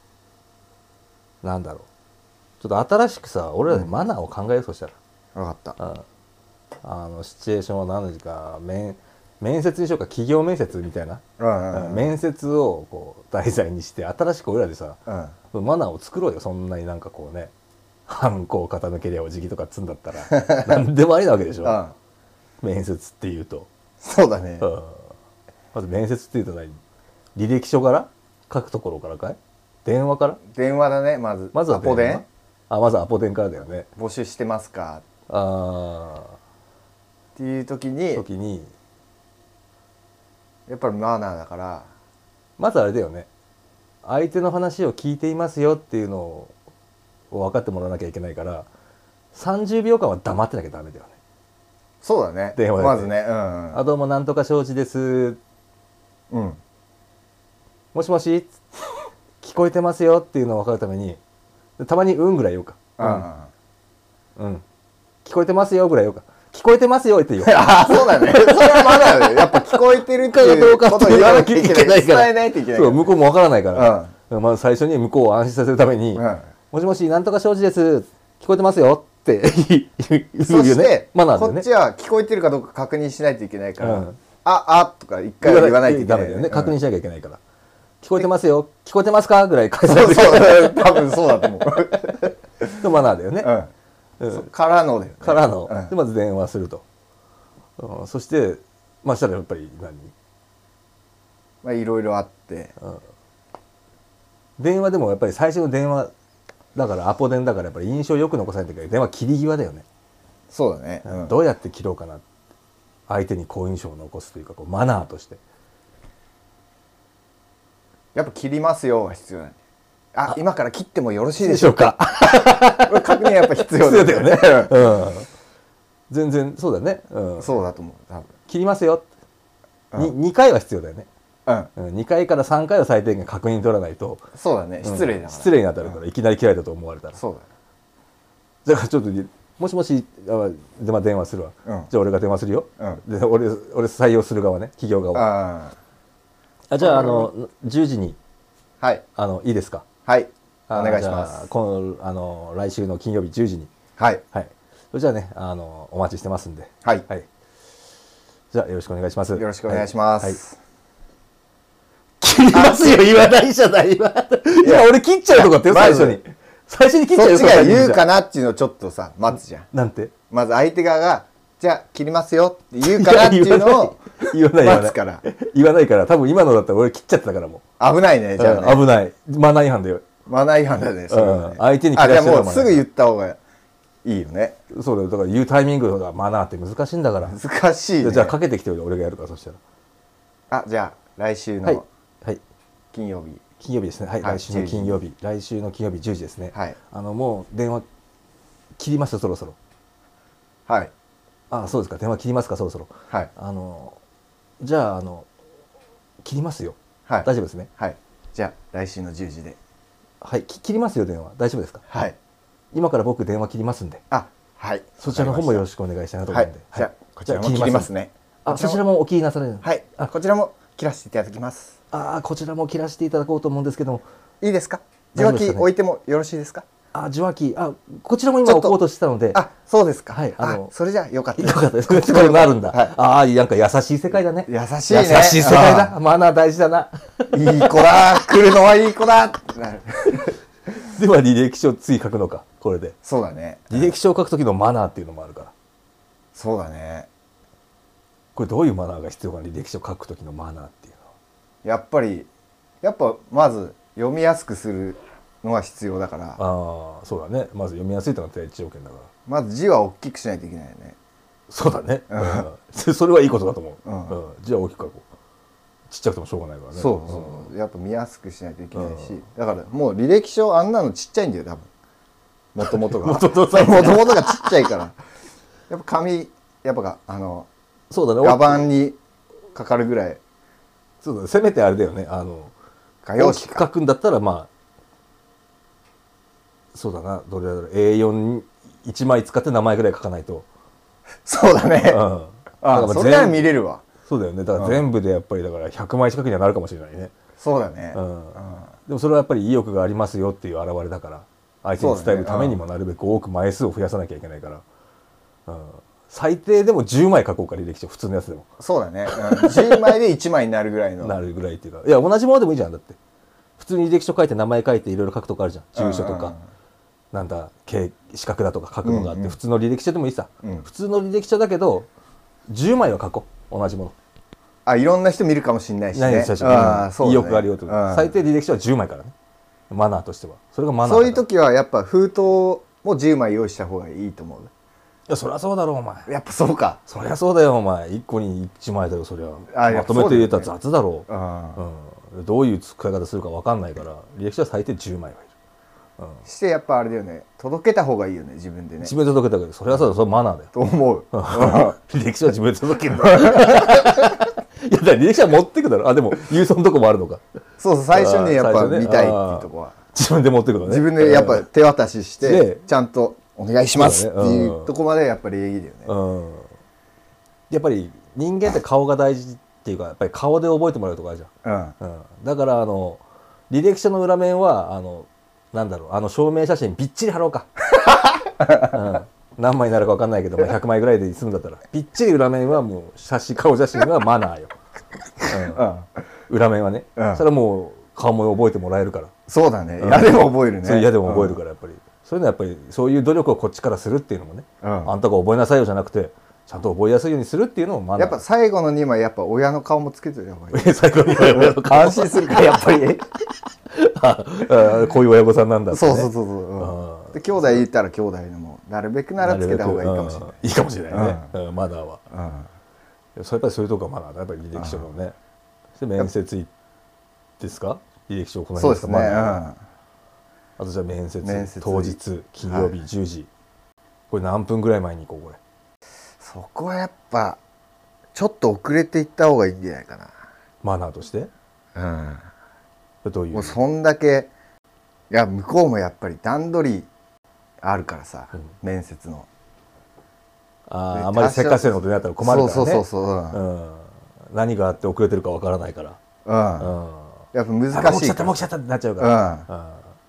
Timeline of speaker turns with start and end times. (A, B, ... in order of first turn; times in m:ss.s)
0:01.4-0:01.9 A
0:02.6-0:04.9 A
0:05.4-0:05.8 B
0:05.8-0:06.0 A
0:06.8-0:17.5 A
0:11.4-0:12.1 B
0:15.1-0:15.3 B
0:18.1-0:21.8 A
0:20.3-0:20.8 B
0:21.6-0:21.9 B
0:22.6-0:23.7 A
0:24.0-0:24.7 B
0:24.6-0:25.1 A
0:25.7-0:26.8 A
0:27.4-0:30.4 A
0:30.5-0:32.2 B
0:31.5-0:33.9 A
0:34.0-0:35.0 B
0:35.3-0:36.4 A
0:37.4-0:38.2 B
0:38.1-0:38.7 A
0:40.7-0:41.9 B
0:42.6-0:43.3 A
0:44.0-0:46.5 A
0:47.3-0:48.7 A
0:49.3-0:51.1 A
0:52.0-0:53.8 B
0:52.5-0:53.1 A
0:53.7-0:55.4 A
0:56.3-0:56.6 B
0:57.9-0:58.6 A
0:59.4-1:01.2 A
1:01.8-1:03.2 A
1:03.0-1:03.5 B
1:04.4-1:04.6 A
1:05.2-1:21.6 A
1:07.4-1:13.1 B
1:13.7-1:14.1 B
1:16.2-1:16.4 B
1:20.4-1:26.8 B
1:23.8-1:24.2 A
1:25.4-1:27.4 A
1:28.0-1:31.2 A
1:29.8-1:32.8 B
1:32.8-1:33.5 A
1:33.4-1:33.7 B
1:34.2-1:34.5 A
1:34.3-1:35.9 B
1:35.2-1:36.8 A
1:37.8-1:40.1 A
1:41.6-1:42.7 B
1:44.6-1:46.1 A
1:46.7-1:49.8 A
1:50.5-1:51.4 B
1:51.0-1:52.2 A
1:53.1-1:55.4 A
1:58.1-1:59.6 B
2:00.1-2:05.0 B
2:01.4-2:05.3 A
2:06.1-2:07.5 A
2:07.4-2:08.3 B
2:08.5-2:09.0 A
2:09.9-2:11.1 A
2:11.8-2:14.2 A
2:14.4-2:16.0 B
2:14.8-2:17.2 A
2:17.2-2:17.4 B
2:18.6-2:25.3 A
2:21.6-2:21.9 B
2:25.1-2:25.7 B
2:26.7-2:28.2 A
2:26.8-2:27.3 B
2:29.2-2:29.8 A
2:30.0-2:31.4 B
2:30.7-2:33.7 A
2:34.0-2:34.2 B
2:34.3-2:37.3 A
2:38.5-2:40.4 A
2:39.3-2:40.6 B
2:42.2-2:48.1 A
2:42.5-2:43.0 B
2:44.6-2:46.2 B
2:47.1-2:49.7 B
2:49.7-2:50.1 A
2:50.3-2:55.2 B
2:52.8-2:57.6 A
2:57.8-2:58.9 B
2:58.4-3:00.0 A
3:00.3-3:03.4 B
3:01.1-3:02.8 A
3:04.0-3:04.6 B
3:04.7-3:07.4 A
3:07.2-3:08.4 B
3:08.0-3:09.6 A
3:10.5-3:11.8 B
3:11.6-3:12.4 A
3:12.9-3:13.4 B
3:13.6-3:17.8 A
3:14.2-3:15.0 B
3:18.8-3:19.6 A
3:20.7-3:20.9 B
3:21.5-3:24.0 A
3:24.6-3:25.3 A
3:26.2-3:27.7 A
3:27.1-3:29.6 B
3:30.2-3:31.8 A
3:31.9-3:32.2 B
3:32.7-3:34.0 A
3:34.1-3:35.6 B
3:35.0-3:37.9 A
3:36.3-3:38.8 B
3:38.4-3:40.1 A
3:39.6-3:41.8 B
3:41.9-3:44.0 A
3:44.4-3:46.6 B
3:45.1-3:45.7 A
3:46.9-3:49.4 A
3:48.4-3:48.8 B
3:49.3-3:52.9 B
3:50.1-3:50.7 A
3:51.4-3:57.7 A
3:54.5-3:55.9 B
3:57.3-4:00.3 B
4:00.7-4:03.0 A
4:03.0-4:03.9 B
4:03.7-4:05.5 A
4:06.3-4:07.1 B
4:08.3-4:11.0 A
4:11.6-4:12.3 B
4:12.8-4:16.4 B
4:16.4-4:19.1 A
4:19.3-4:21.0 B
4:21.5-4:25.0 A
4:22.1-4:22.5 B
4:23.8-4:24.2 B
4:25.9-4:27.5 A
4:26.7-4:31.7 B
4:28.7-4:29.2 A
4:32.5-4:35.0 B
4:32.6-4:34.6 A
4:35.7-4:37.5 B
4:37.9-4:38.7 A
4:38.2-4:39.0 B
4:39.5-4:40.2 B
4:41.0-4:42.5 A
4:43.0-4:43.7 B
4:43.2-4:44.5 A
4:46.7-4:50.4 A
4:51.2-4:52.0 B
4:51.9-4:53.5 A
4:52.6-4:53.8 B
4:54.0-4:57.1 A
4:54.5-4:54.8 B
4:57.4-4:58.7 B
4:57.9-5:04.6 A
5:01.8-5:02.6 B
5:05.5-5:08.5 A
5:08.6-5:11.2 B
5:09.1-5:09.9 A
5:11.0-5:13.0 A
5:13.6-5:16.3 A
5:15.8-5:16.4 B
5:17.1-5:21.9 A
5:18.8-5:19.4 B
5:22.5-5:23.9 A
5:24.6-5:28.1 B
5:25.9-5:29.1 A
5:29.7-5:31.2 A
5:30.8-5:34.5 B
5:35.1-5:36.1 A
5:36.1-5:36.8 B
5:36.8-5:45.3 A
5:39.5-5:40.5 B
5:41.1-5:41.6 B
5:46.0-5:46.2 A
5:46.2-5:48.9 B
5:48.8-5:50.5 A
5:50.5-5:51.8 B
5:51.1-5:57.2 A
5:53.0-5:54.0 B
5:57.6-5:59.7 B
5:57.9-6:01.5 A
6:00.6-6:05.9 B
6:02.2-6:02.6 A
6:03.7-6:04.7 A
6:05.9-6:06.5 A
6:07.5-6:17.5 A
6:11.4-6:11.7 B
6:18.5-6:24.6 A
6:25.3-6:25.6 A
6:25.3-6:25.8 B
6:26.3-6:29.1 A
6:27.0-6:27.2 B
6:29.3-6:31.4 B
6:29.8-6:38.2 A
6:34.6-6:34.9 B
6:38.0-6:43.0 B
6:40.5-6:42.7 A
6:43.7-6:47.6 A
6:45.7-6:50.4 B
6:49.2-6:52.0 A
6:50.9-6:51.3 B
6:52.1-6:52.5 B
6:53.2-6:55.1 A
6:54.6-6:54.8 B
6:55.8-6:56.5 A
6:57.4-6:59.4 A
6:58.6-6:59.6 B
7:00.6-7:03.3 A
7:01.2-7:02.8 B
7:04.1-7:05.4 A
7:06.2-7:07.4 B
7:08.1-7:10.1 B
7:10.6-7:11.3 A
7:11.7-7:12.3 B
7:13.0-7:13.6 A
7:13.3-7:14.3 B
7:15.1-7:16.9 B
7:17.6-7:19.3 B
7:20.7-7:26.0 A
7:20.9-7:23.4 B
7:26.2-7:26.7 B
7:26.6-7:29.9 A
7:27.3-7:28.4 B
7:29.0-7:29.5 B